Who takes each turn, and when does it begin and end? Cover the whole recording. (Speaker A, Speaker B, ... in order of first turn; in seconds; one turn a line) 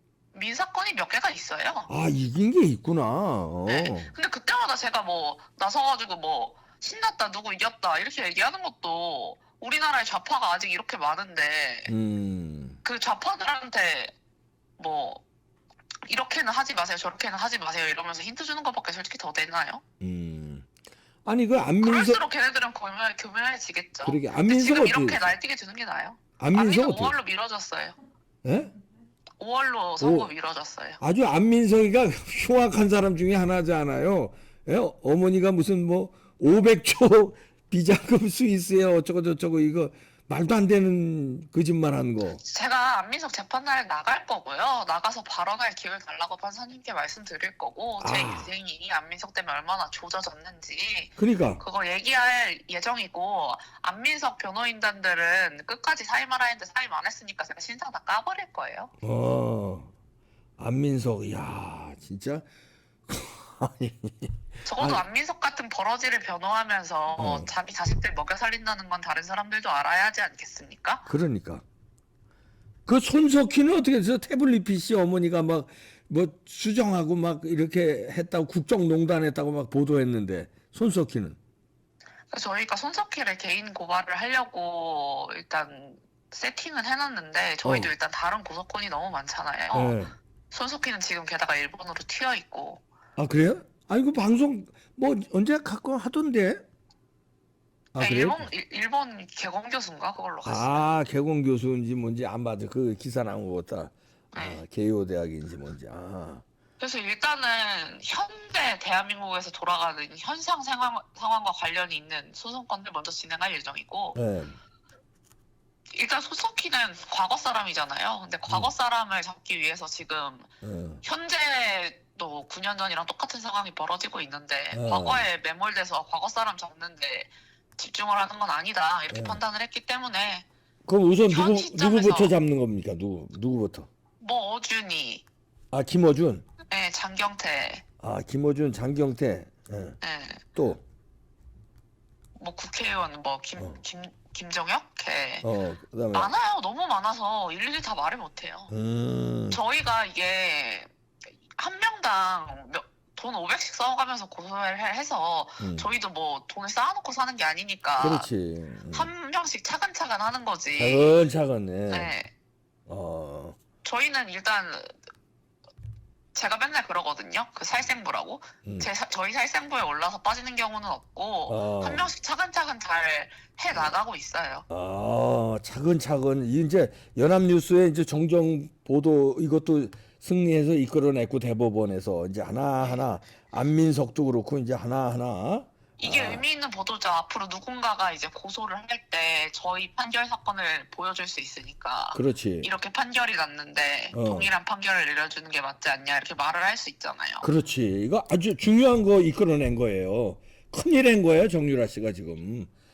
Speaker A: 0.3-1.9
Speaker B: 1.9-4.1
Speaker A: 3.6-11.9
Speaker B: 11.9-12.8
Speaker A: 12.8-14.1
Speaker A: 14.8-15.2
Speaker A: 16.1-19.8
Speaker B: 20.0-20.7
Speaker B: 21.2-22.2
Speaker A: 21.8-28.0
Speaker B: 24.0-25.3
Speaker B: 26.4-27.1
Speaker B: 28.4-28.7
Speaker A: 29.4-31.0
Speaker B: 30.0-30.3
Speaker B: 31.0-42.4
Speaker A: 42.4-58.9
Speaker B: 48.0-48.5
Speaker B: 51.2-51.6
Speaker B: 59.0-59.9
Speaker B: 60.6-62.5
Speaker B: 63.1-65.0
Speaker A: 64.6-71.1
Speaker B: 67.1-67.5
Speaker B: 71.1-71.6
Speaker B: 72.8-81.4
Speaker A: 82.3-90.0
Speaker B: 87.6-87.9
Speaker B: 89.7-90.1
Speaker A: 90.5-92.8
Speaker B: 93.2-96.6
Speaker B: 97.9-98.5
Speaker A: 98.0-100.9
Speaker B: 100.4-106.4
Speaker A: 104.3-104.6
Speaker A: 106.8-114.2
Speaker B: 114.1-114.6
Speaker A: 115.9-120.5
Speaker B: 120.6-121.0
Speaker A: 121.0-130.4
Speaker B: 124.7-125.2
Speaker B: 129.1-129.4
Speaker B: 130.8-133.9
Speaker A: 131.3-132.3
Speaker A: 134.2-135.2
Speaker B: 135.7-136.5
Speaker A: 136.7-137.8
Speaker B: 138.0-140.0
Speaker A: 140.0-140.4
Speaker B: 140.5-140.8
Speaker A: 142.4-145.5
Speaker B: 145.4-146.3
Speaker A: 146.1-148.7
Speaker B: 148.7-149.6
Speaker A: 149.5-150.9
Speaker A: 151.5-158.3
Speaker B: 155.6-155.9
Speaker B: 158.0-159.1
Speaker A: 158.9-161.2
Speaker B: 160.8-162.1
Speaker A: 161.9-162.3
Speaker B: 162.9-163.6
Speaker A: 163.8-164.9
Speaker A: 166.3-174.6
Speaker B: 171.5-172.1
Speaker B: 174.7-186.4
Speaker A: 186.0-197.5
Speaker B: 192.1-192.7
Speaker B: 194.1-194.5
Speaker B: 197.4-202.7